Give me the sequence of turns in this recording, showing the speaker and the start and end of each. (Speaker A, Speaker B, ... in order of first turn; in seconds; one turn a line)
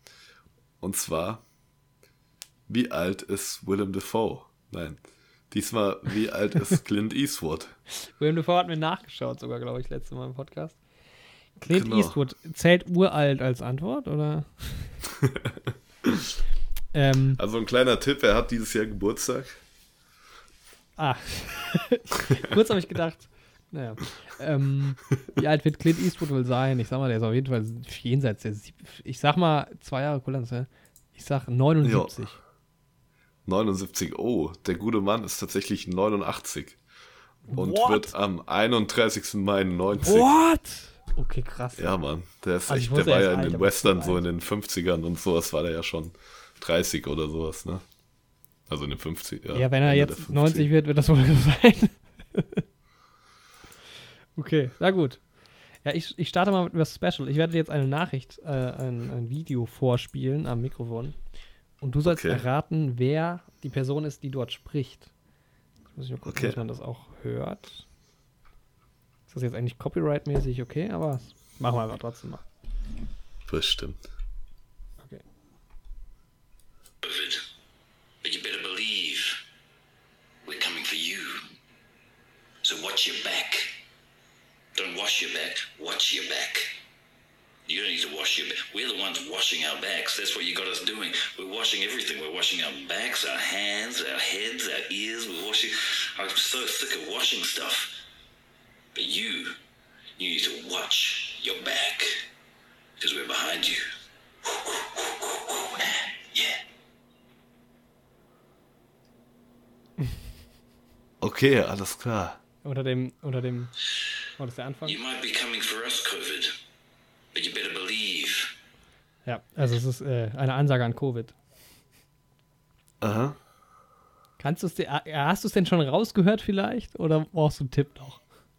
Speaker A: 0.8-1.4
Speaker A: 2.7-7.8
Speaker B: 8.0-10.8
Speaker B: 11.6-15.0
Speaker A: 11.7-12.2
Speaker A: 15.2-15.5
Speaker A: 16.0-16.3
Speaker B: 16.9-17.4
Speaker A: 17.4-19.6
Speaker B: 21.0-32.4
Speaker A: 31.8-32.1
Speaker A: 33.4-36.8
Speaker B: 37.5-38.1
Speaker A: 37.5-40.3
Speaker B: 40.0-42.0
Speaker A: 41.8-47.8
Speaker B: 42.7-44.2
Speaker A: 48.7-50.7
Speaker B: 49.5-52.6
Speaker B: 54.4-55.2
Speaker B: 55.8-61.2
Speaker B: 61.8-65.1
Speaker A: 62.0-62.5
Speaker B: 65.9-67.8
Speaker A: 66.2-66.6
Speaker B: 69.3-72.5
Speaker A: 73.5-74.0
Speaker C: 77.0-77.4
Speaker C: 78.2-79.4
Speaker C: 80.4-81.5
Speaker C: 82.6-83.7
Speaker C: 84.7-86.7
Speaker C: 87.7-97.9
Speaker C: 98.9-99.6
Speaker C: 100.2-102.2
Speaker C: 103.0-103.8
Speaker C: 104.4-106.6
Speaker A: 111.2-112.4
Speaker B: 112.6-113.7
Speaker B: 114.4-115.0
Speaker C: 114.8-116.5
Speaker C: 117.3-118.5
Speaker B: 119.2-121.3
Speaker A: 123.0-123.4
Speaker B: 124.4-128.2